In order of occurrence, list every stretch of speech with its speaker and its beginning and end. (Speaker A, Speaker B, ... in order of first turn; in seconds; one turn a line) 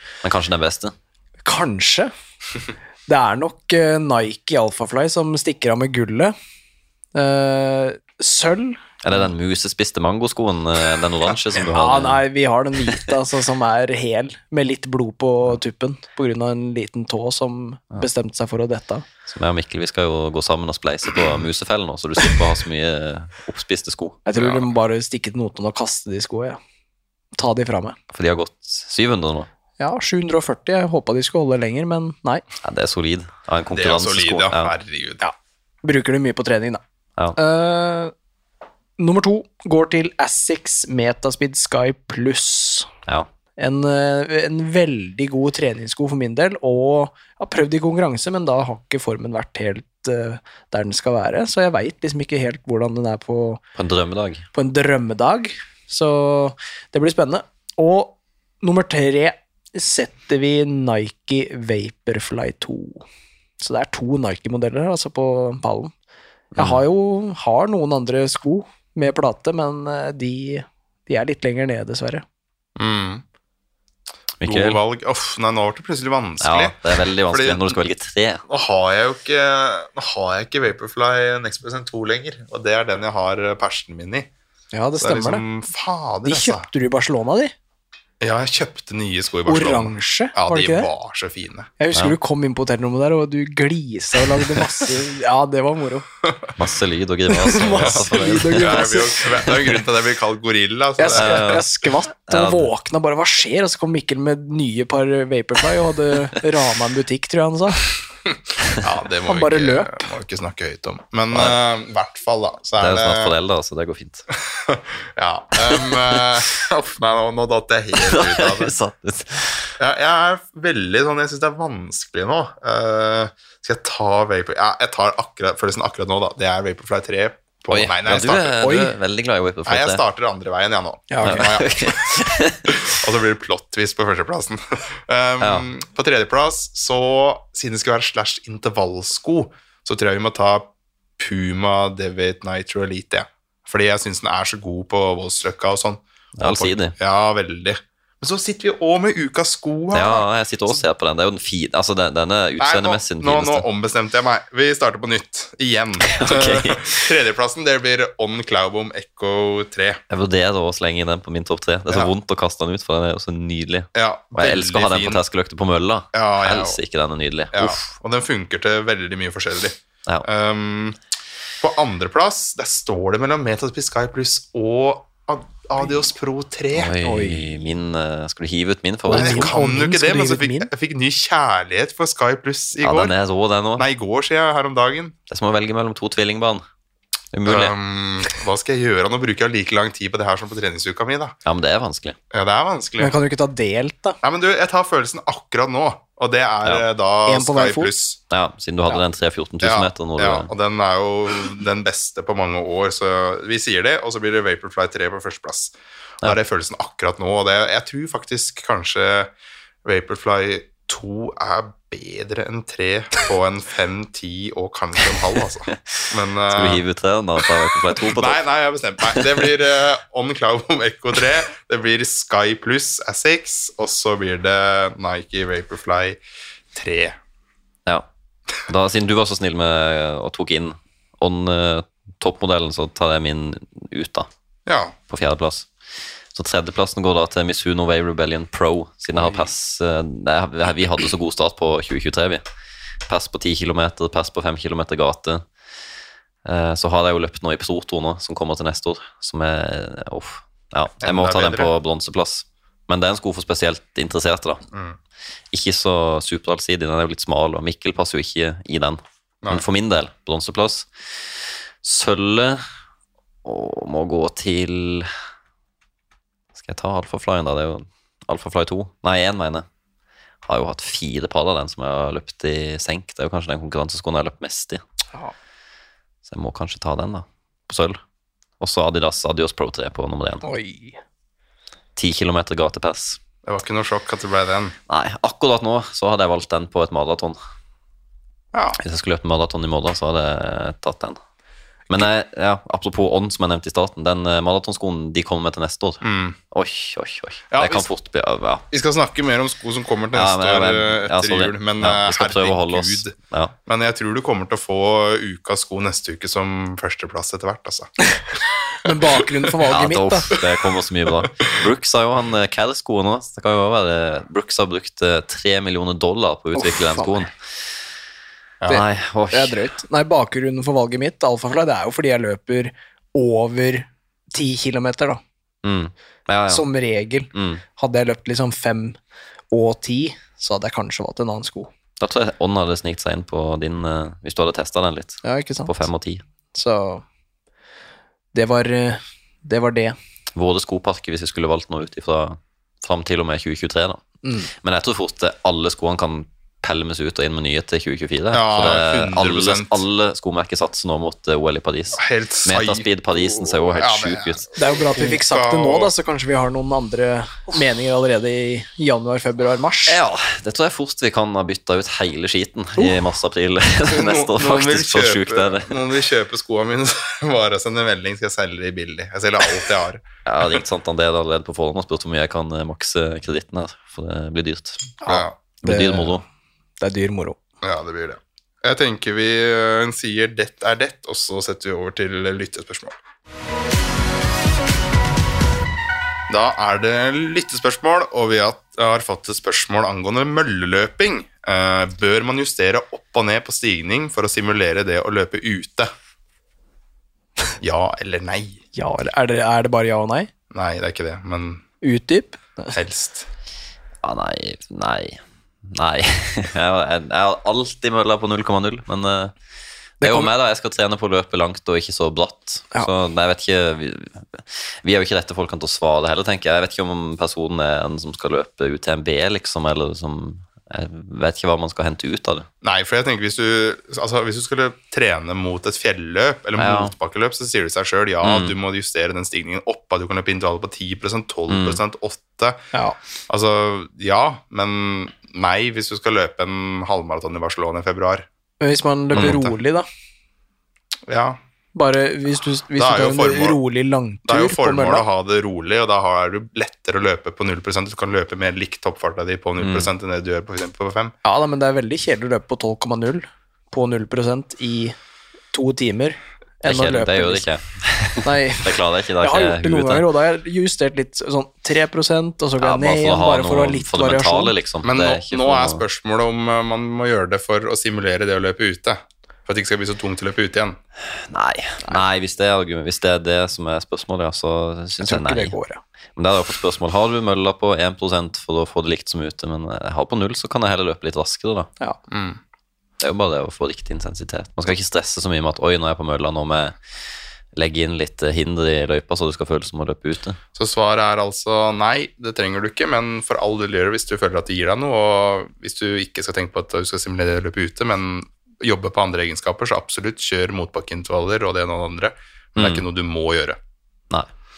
Speaker A: 0.2-0.9
Speaker B: 1.4-2.1
Speaker B: 3.1-6.3
Speaker B: 7.1-8.8
Speaker A: 9.0-12.2
Speaker B: 11.7-19.1
Speaker A: 19.3-24.6
Speaker B: 24.2-26.6
Speaker B: 27.4-28.0
Speaker A: 28.1-29.5
Speaker B: 29.8-32.4
Speaker A: 32.6-34.7
Speaker C: 33.7-35.2
Speaker B: 35.2-36.8
Speaker B: 37.4-38.1
Speaker B: 39.0-42.9
Speaker B: 43.6-53.6
Speaker A: 53.8-54.5
Speaker B: 54.5-63.0
Speaker B: 63.6-65.9
Speaker B: 66.5-72.2
Speaker A: 66.6-66.8
Speaker C: 72.8-73.2
Speaker A: 74.4-74.8
Speaker C: 74.4-77.7
Speaker A: 76.4-78.4
Speaker C: 78.5-84.3
Speaker B: 84.7-85.4
Speaker C: 85.0-86.7
Speaker B: 86.2-87.5
Speaker C: 88.2-91.7
Speaker B: 89.5-90.9
Speaker B: 91.8-96.1
Speaker C: 96.2-96.5
Speaker A: 96.6-99.6
Speaker B: 97.3-99.2
Speaker C: 97.8-101.6
Speaker B: 101.0-107.9
Speaker A: 101.1-101.7
Speaker A: 102.3-102.7
Speaker C: 108.7-113.3
Speaker B: 109.2-110.0
Speaker A: 111.3-111.6
Speaker A: 112.8-114.2
Speaker C: 114.5-118.7
Speaker A: 115.7-116.2
Speaker A: 118.0-119.7
Speaker C: 119.8-128.9
Speaker A: 127.7-130.0
Speaker C: 129.7-150.8
Speaker B: 131.1-131.5
Speaker A: 131.2-132.8
Speaker A: 135.4-135.7
Speaker A: 146.4-146.9
Speaker A: 149.9-153.6
Speaker C: 152.6-160.0
Speaker A: 156.1-157.1
Speaker A: 160.1-167.8
Speaker C: 163.9-165.2
Speaker C: 166.1-166.8
Speaker C: 167.5-171.0
Speaker C: 171.6-176.9
Speaker A: 176.7-179.6
Speaker B: 177.0-177.5
Speaker B: 179.1-180.7
Speaker C: 179.1-183.1
Speaker A: 182.8-183.9
Speaker C: 183.8-185.1
Speaker A: 185.3-186.6
Speaker A: 187.3-187.7
Speaker C: 187.4-191.4
Speaker A: 191.4-192.2
Speaker C: 192.3-193.1
Speaker B: 193.0-194.2
Speaker C: 194.2-198.2
Speaker B: 197.3-197.9
Speaker A: 198.3-200.5
Speaker C: 199.6-209.3
Speaker C: 209.8-216.8
Speaker A: 216.5-218.4
Speaker C: 218.0-226.2
Speaker C: 226.7-227.2
Speaker A: 228.6-234.3
Speaker C: 234.7-234.9
Speaker A: 235.1-235.7
Speaker A: 236.3-242.4
Speaker A: 243.1-245.4
Speaker A: 246.4-254.6
Speaker C: 251.0-251.7
Speaker C: 254.7-255.0
Speaker A: 255.5-260.9
Speaker A: 261.8-262.6
Speaker A: 263.4-265.1
Speaker A: 266.6-269.6
Speaker A: 270.5-274.8
Speaker A: 276.3-278.0
Speaker A: 278.6-280.4
Speaker B: 280.4-281.0
Speaker A: 281.9-283.2
Speaker C: 283.4-284.7
Speaker A: 284.9-287.4
Speaker C: 288.5-288.8
Speaker A: 288.8-291.2
Speaker A: 291.9-298.6
Speaker C: 296.0-296.4
Speaker C: 297.5-297.9
Speaker C: 298.7-303.1
Speaker A: 300.1-303.6
Speaker C: 303.7-307.9
Speaker B: 308.8-310.4
Speaker A: 309.7-317.4
Speaker B: 316.6-317.3
Speaker A: 318.7-319.6
Speaker B: 319.3-325.2
Speaker A: 325.6-326.6
Speaker B: 326.5-329.0
Speaker A: 327.3-327.6
Speaker B: 329.5-331.7
Speaker A: 332.0-336.2
Speaker B: 335.2-335.8
Speaker B: 336.5-337.0
Speaker B: 338.3-339.9
Speaker A: 340.3-344.0
Speaker B: 344.2-344.5
Speaker A: 344.5-354.5
Speaker C: 348.3-349.8
Speaker C: 351.9-355.9
Speaker B: 354.6-360.0
Speaker A: 359.9-365.8
Speaker C: 363.9-370.6
Speaker A: 370.3-376.2
Speaker B: 375.1-376.2
Speaker C: 375.1-375.4
Speaker B: 376.8-377.4
Speaker C: 377.6-382.9
Speaker C: 386.3-395.9
Speaker C: 397.6-398.6
Speaker B: 398.7-400.3
Speaker C: 400.5-401.6
Speaker B: 401.8-402.8
Speaker C: 402.7-403.3
Speaker A: 404.0-409.3
Speaker B: 410.0-410.3
Speaker A: 410.0-422.5
Speaker C: 422.6-432.6
Speaker A: 426.6-426.9
Speaker A: 428.2-428.5
Speaker A: 431.5-431.8
Speaker C: 433.3-438.3
Speaker B: 438.6-439.9
Speaker C: 439.1-439.6
Speaker C: 441.1-441.4
Speaker B: 441.7-445.1
Speaker C: 442.8-443.6
Speaker C: 444.3-451.1
Speaker A: 449.6-449.9
Speaker B: 451.2-454.9
Speaker B: 455.5-457.4
Speaker A: 456.6-460.1
Speaker B: 458.2-464.6
Speaker A: 462.6-465.8
Speaker C: 464.8-470.8
Speaker A: 471.1-475.6
Speaker B: 475.0-475.8
Speaker A: 476.2-481.7
Speaker C: 482.1-482.4
Speaker A: 483.0-486.8
Speaker A: 487.6-490.4
Speaker C: 490.6-503.6
Speaker A: 502.6-502.8